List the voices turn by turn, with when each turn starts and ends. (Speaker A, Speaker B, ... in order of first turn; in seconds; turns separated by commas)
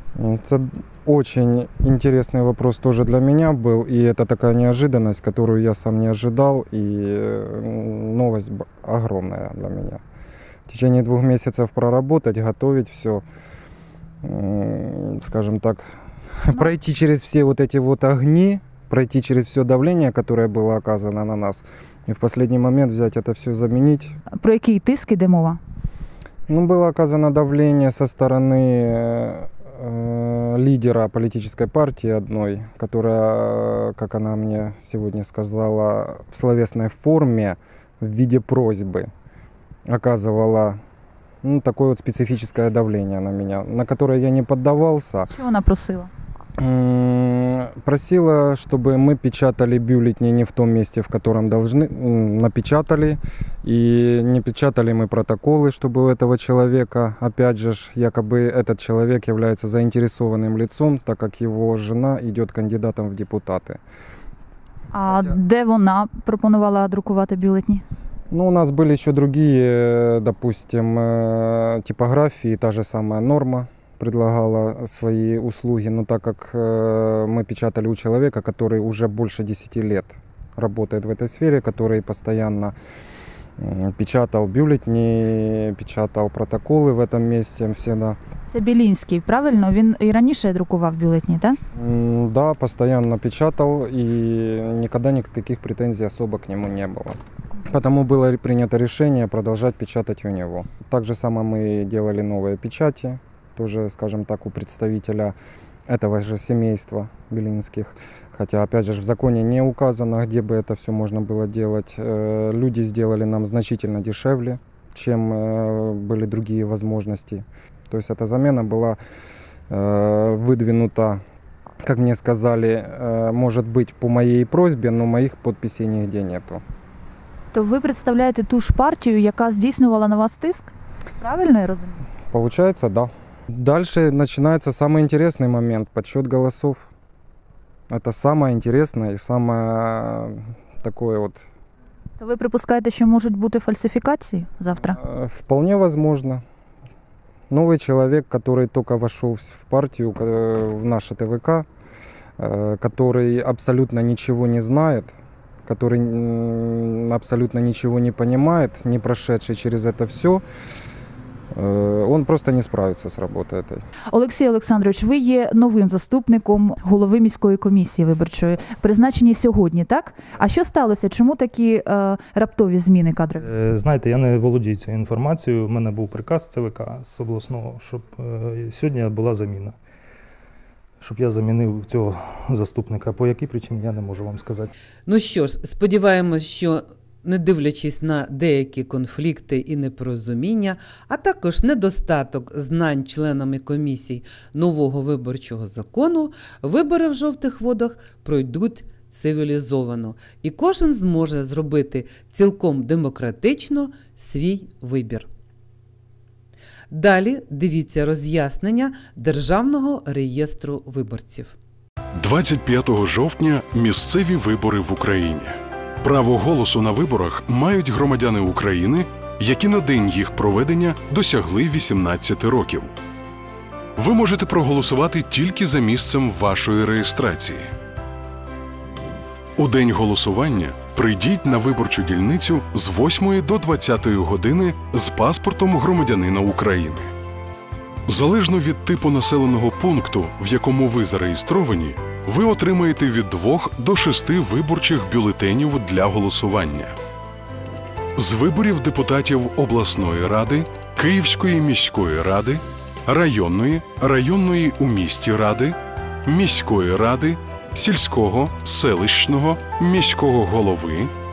Speaker A: 0.2-10.0, Speaker A: 10.7-13.2, Speaker A: 14.2-15.8, Speaker A: 16.4-24.1, Speaker B: 24.3-25.6, Speaker A: 26.5-39.1, Speaker A: 39.9-40.8, Speaker A: 41.4-45.3, Speaker B: 45.3-46.1, Speaker A: 46.6-63.8, Speaker B: 64.9-67.8, Speaker A: 68.3-82.7, Speaker A: 83.6-88.2, Speaker B: 88.5-91.6, Speaker A: 91.8-97.2, Speaker A: 97.7-105.3, Speaker A: 105.9-119.0, Speaker A: 119.7-121.2, Speaker A: 121.8-126.6, Speaker B: 127.5-132.0, Speaker A: 132.3-136.9, Speaker A: 137.9-141.5, Speaker B: 142.2-145.0, Speaker A: 144.8-146.4, Speaker A: 147.5-151.7, Speaker A: 152.4-155.1, Speaker A: 155.7-160.4, Speaker A: 161.5-163.8, Speaker B: 164.1-173.4, Speaker C: 173.4-179.8, Speaker C: 181.0-184.7, Speaker D: 185.1-205.3, Speaker D: 206.9-211.5, Speaker E: 212.2-222.9, Speaker E: 224.0-227.7, Speaker E: 229.6-237.1, Speaker E: 238.1-247.0, Speaker E: 248.2-261.1